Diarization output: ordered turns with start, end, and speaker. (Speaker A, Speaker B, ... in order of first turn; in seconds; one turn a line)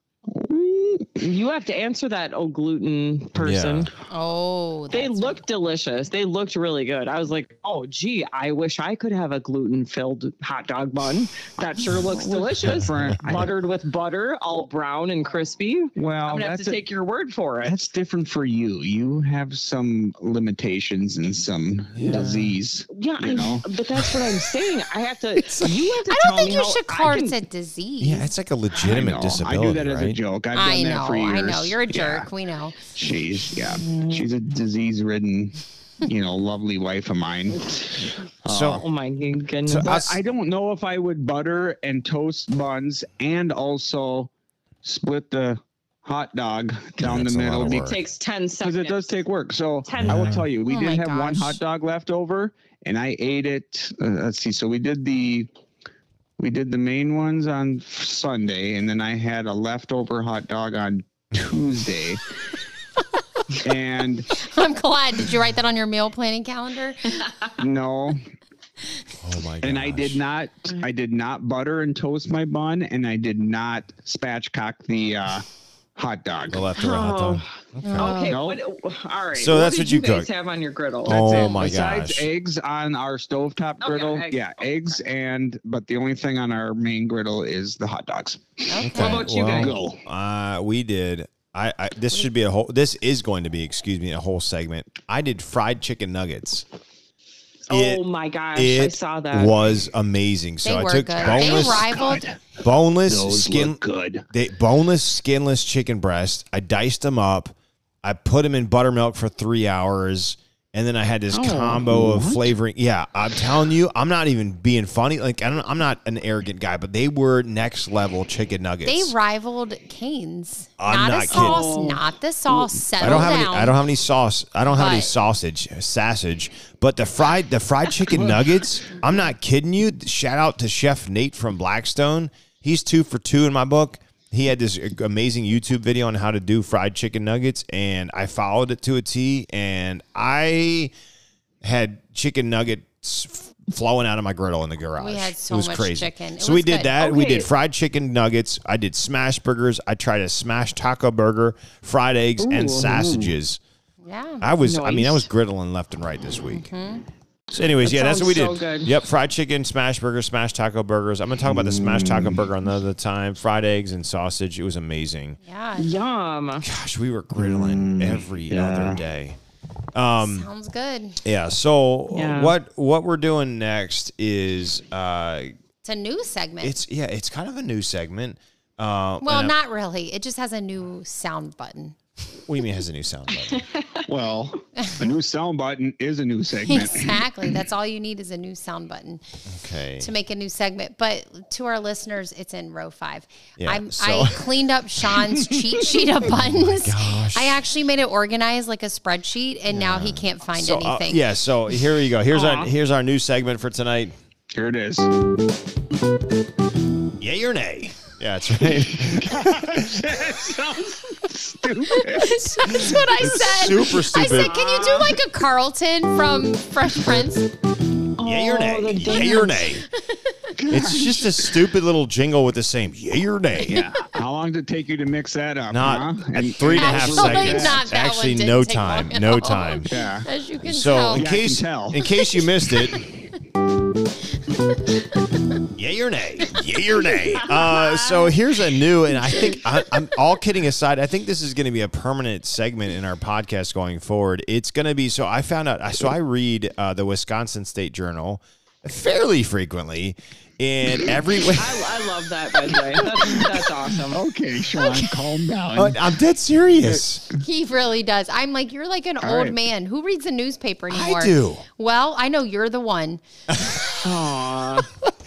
Speaker A: 0.3-1.2
Speaker B: 1.2-3.9
Speaker C: 3.3-3.9
Speaker D: 4.1-5.4
Speaker B: 4.9-17.7
Speaker A: 12.0-13.5
Speaker A: 16.0-16.8
Speaker A: 17.6-23.6
Speaker C: 21.9-22.6
Speaker B: 22.1-22.3
Speaker B: 22.9-27.4
Speaker D: 26.1-28.3
Speaker C: 28.0-30.2
Speaker A: 28.8-32.3
Speaker D: 30.5-32.8
Speaker A: 32.9-38.8
Speaker B: 33.7-34.2
Speaker C: 38.5-38.8
Speaker B: 38.8-40.0
Speaker C: 39.7-40.2
Speaker A: 39.7-44.3
Speaker A: 44.8-47.9
Speaker C: 47.0-48.0
Speaker B: 47.6-49.1
Speaker A: 48.6-55.5
Speaker B: 49.8-50.4
Speaker C: 50.0-50.5
Speaker D: 50.6-51.6
Speaker A: 56.4-62.2
Speaker A: 63.5-64.3
Speaker D: 64.3-67.2
Speaker A: 67.6-68.2
Speaker C: 69.2-70.2
Speaker A: 69.6-76.7
Speaker C: 76.5-78.2
Speaker B: 76.8-81.2
Speaker D: 77.8-78.4
Speaker A: 78.3-78.6
Speaker C: 79.3-80.3
Speaker C: 81.0-82.3
Speaker A: 81.0-88.7
Speaker D: 81.3-81.8
Speaker B: 83.8-85.0
Speaker D: 88.7-89.2
Speaker C: 88.8-96.6
Speaker B: 88.9-89.8
Speaker A: 89.5-90.0
Speaker B: 97.7-99.5
Speaker C: 97.7-98.0
Speaker C: 98.5-101.9
Speaker D: 100.6-102.2
Speaker A: 101.2-102.5
Speaker C: 102.5-103.8
Speaker A: 103.1-104.2
Speaker C: 104.3-119.1
Speaker B: 111.3-111.8
Speaker A: 111.8-112.4
Speaker D: 118.8-123.8
Speaker C: 120.8-121.7
Speaker B: 121.3-122.0
Speaker C: 123.0-140.9
Speaker D: 124.7-125.1
Speaker C: 141.6-153.6
Speaker D: 145.0-146.9
Speaker B: 147.0-147.5
Speaker B: 152.4-153.3
Speaker D: 154.0-154.5
Speaker C: 154.4-156.7
Speaker B: 154.6-155.2
Speaker D: 156.5-157.0
Speaker C: 157.5-165.4
Speaker B: 157.8-158.9
Speaker A: 161.4-162.4
Speaker D: 165.4-165.9
Speaker B: 165.8-166.7
Speaker C: 166.6-169.4
Speaker A: 167.3-169.0
Speaker C: 169.9-170.5
Speaker D: 170.2-171.2
Speaker C: 171.2-175.5
Speaker B: 172.1-172.5
Speaker D: 175.8-176.8
Speaker C: 176.6-179.5
Speaker D: 179.2-181.9
Speaker C: 182.5-183.7
Speaker B: 183.7-184.0
Speaker A: 184.1-187.2
Speaker D: 186.7-189.2
Speaker C: 189.5-190.1
Speaker D: 190.0-201.2
Speaker C: 193.6-194.5
Speaker C: 196.2-197.6
Speaker C: 199.7-204.1
Speaker B: 202.3-202.7
Speaker A: 204.5-205.1
Speaker C: 207.2-210.3
Speaker A: 209.0-212.8
Speaker D: 211.9-217.5
Speaker C: 212.6-214.6
Speaker B: 214.2-215.1
Speaker B: 218.2-219.7
Speaker C: 218.2-219.8
Speaker D: 220.0-220.3
Speaker A: 220.6-221.3
Speaker C: 220.7-223.8
Speaker A: 223.7-227.8
Speaker C: 225.7-229.9
Speaker D: 226.7-231.2
Speaker A: 229.9-230.3
Speaker C: 230.6-233.1
Speaker A: 231.1-232.0
Speaker D: 232.0-233.0
Speaker C: 235.7-251.8
Speaker B: 237.5-237.9
Speaker B: 251.5-254.2
Speaker A: 254.1-256.0
Speaker D: 254.8-255.1
Speaker C: 255.7-257.2
Speaker D: 257.4-263.2
Speaker A: 259.2-259.6
Speaker C: 260.9-261.6
Speaker C: 263.5-264.0
Speaker B: 264.0-264.9